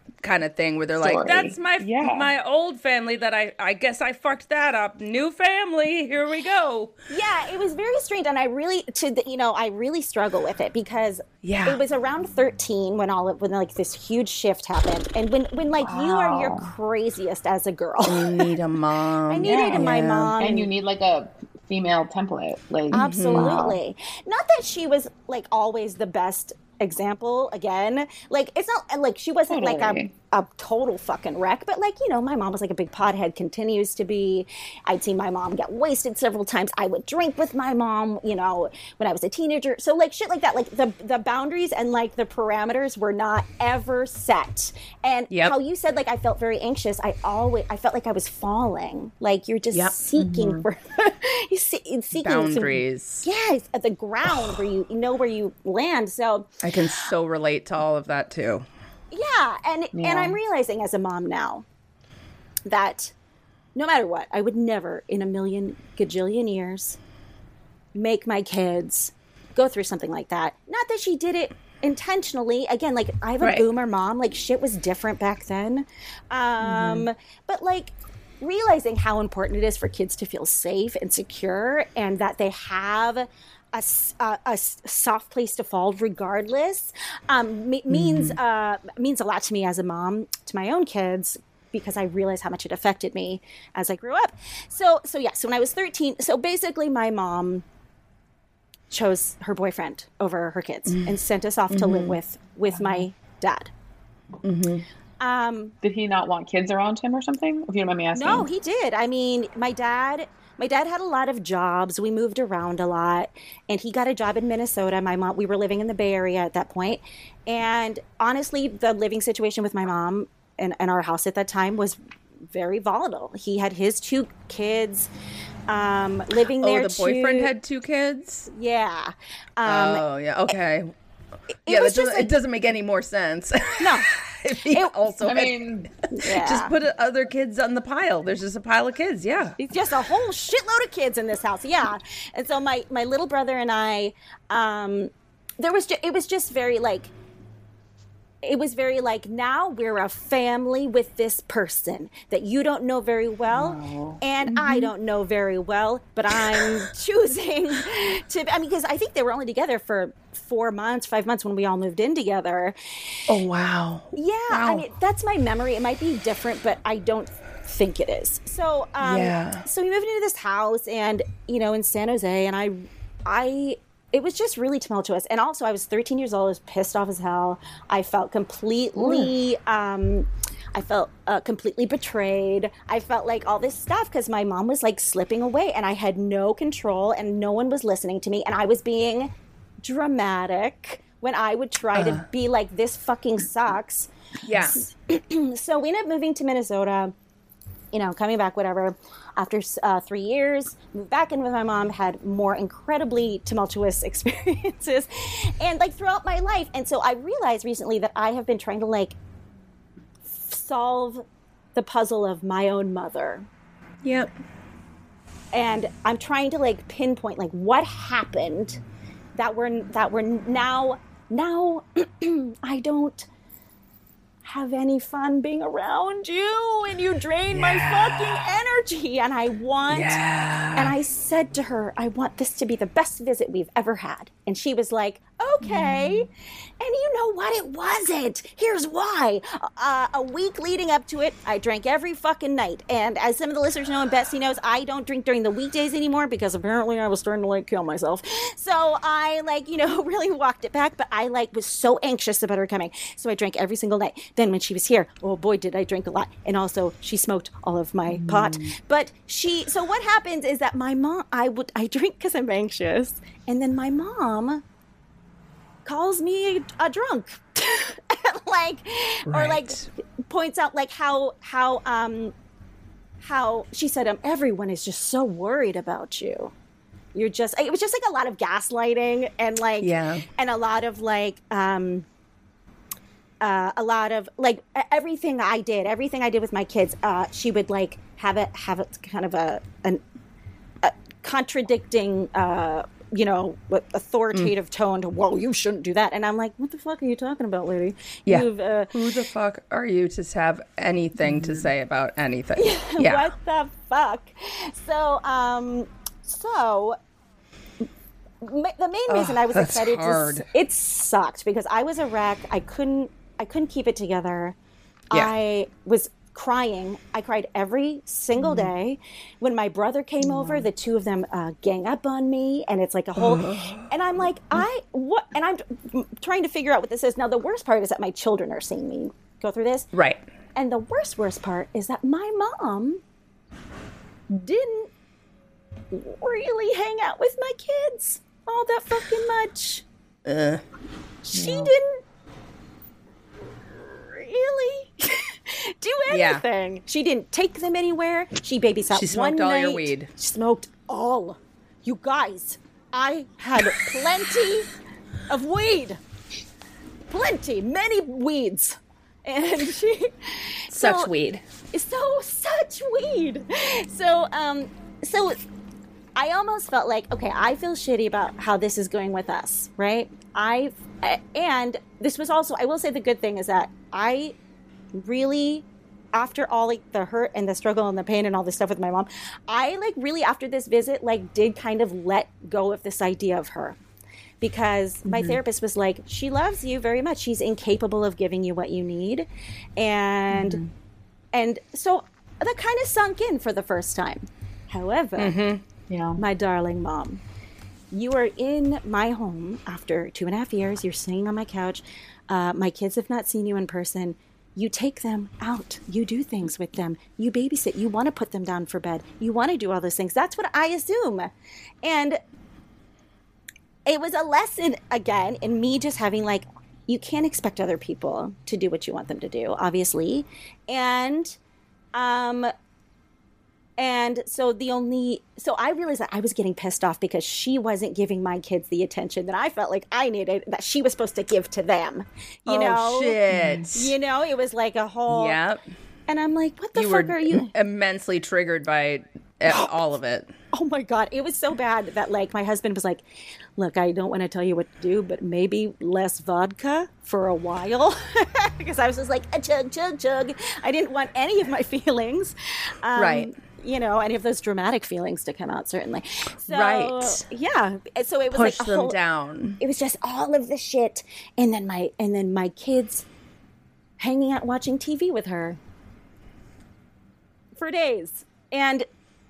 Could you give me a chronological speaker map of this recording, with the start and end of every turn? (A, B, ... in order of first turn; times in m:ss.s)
0:00.2-0:06.9 A
0:01.0-0:02.3 B
0:07.1-0:18.5 C
0:11.4-0:11.8 A
0:15.8-0:16.7 B
0:18.1-0:20.3 A
0:19.3-0:20.7 C
0:19.4-0:23.8 B
0:22.9-0:56.5 C
0:22.9-0:23.6 A
0:29.5-0:30.1 B
0:45.3-0:45.6 A
0:49.7-0:50.0 A
0:50.2-0:50.6 B
0:52.2-0:53.3 A
0:56.6-0:58.7 A
0:59.1-1:01.7 C
1:00.0-1:00.4 B
1:02.7-1:03.1 C
1:03.8-1:07.0 C
1:08.0-1:37.6 C
1:13.4-1:13.7 A
1:16.7-1:17.0 A
1:27.9-1:28.4 A
1:38.9-1:43.7 C
1:41.7-1:42.2 A
1:44.4-1:44.9 A
1:45.2-1:45.7 C
1:45.8-1:48.5 B
1:48.1-2:02.0 C
2:02.5-2:05.1 C
2:05.7-2:07.5 C
2:06.6-2:08.5 A
2:08.5-2:10.0 C
2:09.6-2:10.9 A
2:11.7-2:12.3 C
2:11.7-2:19.6 A
2:13.8-2:14.1 C
2:14.6-2:14.9 C
2:15.2-2:15.9 B
2:16.1-2:16.7 C
2:19.6-2:27.1 C
2:28.4-2:42.8 C
2:33.5-2:34.2 B
2:34.5-2:34.9 A
2:36.4-2:36.7 A
2:43.3-2:44.9 A
2:44.1-3:09.3 C
2:49.0-2:49.6 A
2:59.0-2:59.3 B
3:09.8-3:17.1 C
3:12.0-3:12.2 A
3:14.4-3:14.8 A
3:17.9-3:29.2 C
3:30.3-3:33.5 C
3:34.0-3:34.3 A
3:35.5-3:38.8 C
3:39.4-3:43.3 C
3:44.4-3:50.2 C
3:47.5-3:48.5 A
3:49.9-3:50.9 A
3:50.7-3:56.3 C
3:56.8-4:24.6 C
4:18.1-4:18.7 B
4:25.8-4:32.3 C
4:29.3-4:29.9 A
4:33.2-4:36.5 C
4:37.2-4:42.1 C
4:39.8-4:40.2 A
4:43.4-4:50.0 C
4:50.8-4:59.0 C
4:58.3-5:03.3 A
5:01.2-5:01.6 B
5:02.6-5:07.0 C
5:08.4-5:14.6 C
5:09.1-5:10.5 A
5:15.1-5:29.9 C
5:20.4-5:20.6 B
5:23.2-5:23.9 A
5:29.9-5:30.2 A
5:30.6-5:33.0 C
5:34.3-5:34.9 C
5:35.9-5:39.8 C
5:40.2-5:40.6 A
5:41.3-5:42.0 C
5:41.3-5:41.7 B
5:43.7-5:54.7 C
5:46.1-5:46.4 A
5:48.9-5:50.1 A
5:55.3-5:56.0 C
5:57.1-6:01.1 C
6:00.7-6:01.4 A
6:01.7-6:05.4 C
6:06.2-6:14.4 C
6:14.9-6:23.8 C
6:24.4-6:30.6 C
6:25.1-6:25.4 B
6:30.3-6:30.7 B
6:31.3-6:35.4 C
6:35.2-6:35.6 A
6:35.9-6:36.2 B
6:36.2-6:37.2 C
6:37.9-6:51.3 C
6:51.8-6:52.2 C
6:53.9-7:01.4 C
7:02.0-7:02.5 C
7:03.8-7:13.2 C
7:12.5-7:13.9 A
7:13.3-7:13.7 B
7:13.7-7:15.4 C
7:15.1-7:15.6 A
7:16.1-7:17.5 C
7:16.8-7:20.3 A
7:20.5-7:23.0 C
7:23.6-7:39.0 C
7:33.0-7:33.3 A
7:36.4-7:37.3 A
7:38.3-7:39.6 A
7:39.6-7:43.0 C
7:44.0-7:45.6 C
7:47.6-7:48.9 C